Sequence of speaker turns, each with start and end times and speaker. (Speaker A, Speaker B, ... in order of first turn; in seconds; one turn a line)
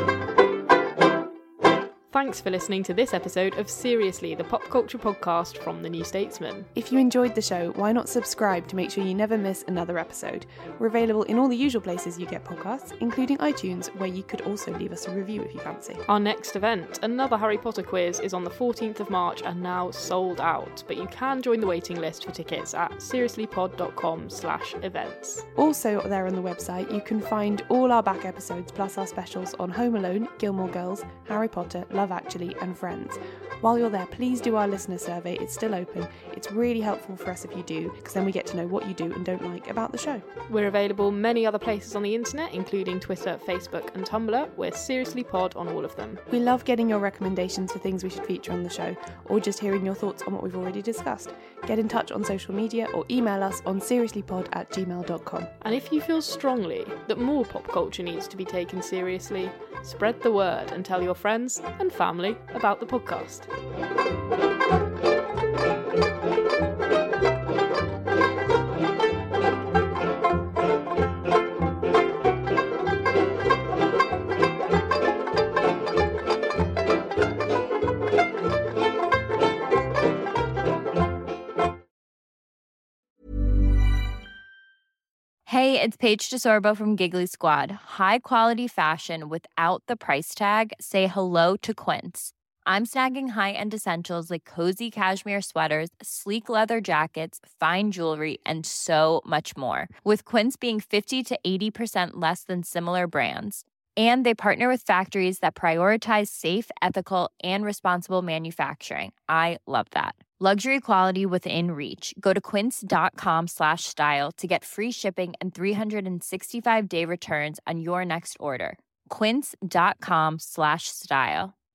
Speaker A: 2.1-6.7
Speaker B: 6.7-16.0
Speaker A: 16.1-25.4
Speaker B: 25.6-40.2
Speaker A: 40.5-46.2
Speaker B: 46.3-55.5
Speaker A: 55.6-63.5
Speaker C: 85.5-121.5